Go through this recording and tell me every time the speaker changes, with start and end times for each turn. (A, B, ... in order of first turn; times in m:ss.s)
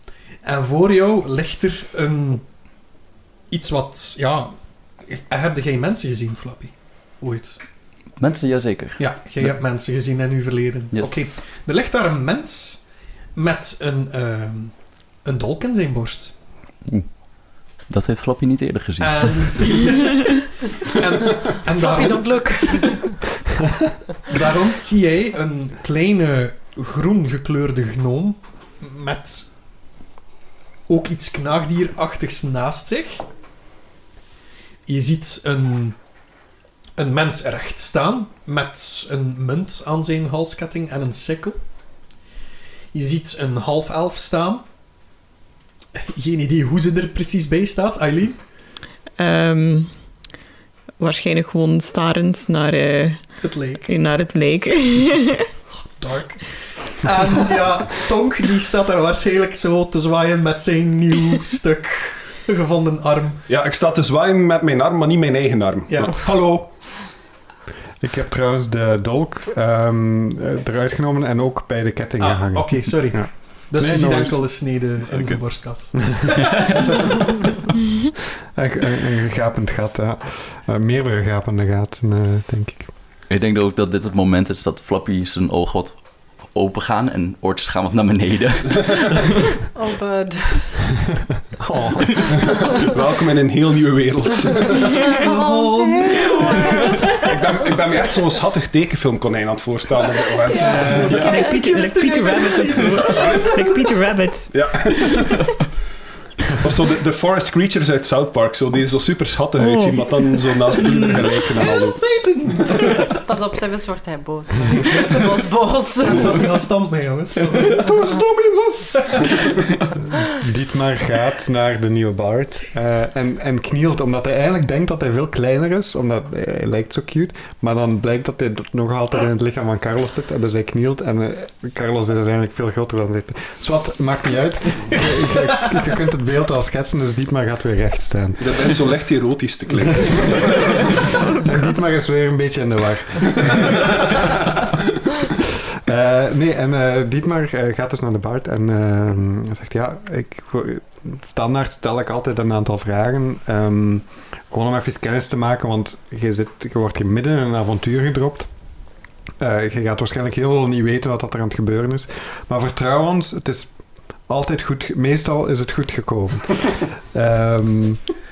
0:00.4-0:02.5 A
0:03.5-0:04.5 A
0:05.1-0:07.6 A
0:08.2-0:09.5 B
0:09.0-0:12.8 A
0:10.9-0:11.2 B
0:13.4-0:14.7 A
0:15.2-0:16.3 A
0:17.9-0:19.3 B
0:19.0-0:22.9 A
0:21.8-0:23.2 C
0:24.3-0:29.5 A
0:30.9-0:33.2 A
0:34.9-0:36.0 A
0:37.0-0:41.6 A
0:42.9-0:44.6 A
0:46.0-0:48.4 A
0:49.2-0:49.9 D
0:51.0-0:53.3 D
0:53.4-0:53.9 A
0:53.9-0:55.5 D
0:55.7-1:03.5 A
1:03.5-1:06.3 E
1:05.9-1:06.7 A
1:08.0-1:14.5 F
1:12.2-1:16.7 A
1:15.1-1:15.4 F
1:16.0-1:16.5 F
1:18.6-1:22.9 F
1:23.3-1:29.2 B
1:29.6-1:30.8 C
1:31.6-1:32.4 F
1:32.3-1:35.1 E
1:35.0-1:37.4 C
1:35.1-1:36.9 A
1:37.1-1:41.3 E
1:40.4-1:41.5 C
1:40.6-1:44.0 A
1:41.0-1:45.2 D
1:44.5-1:45.4 E
1:46.5-1:52.0 E
1:49.6-1:51.3 D
1:51.6-1:53.2 A
1:53.1-1:56.5 C
1:54.8-1:55.3 A
1:56.0-1:58.0 A
1:57.5-1:59.5 E
1:59.0-1:59.3 A
2:00.2-2:18.8 F
2:18.4-2:21.0 E
2:21.3-2:24.7 F
2:25.3-2:38.5 F
2:39.4-2:43.7 F
2:44.3-2:48.0 F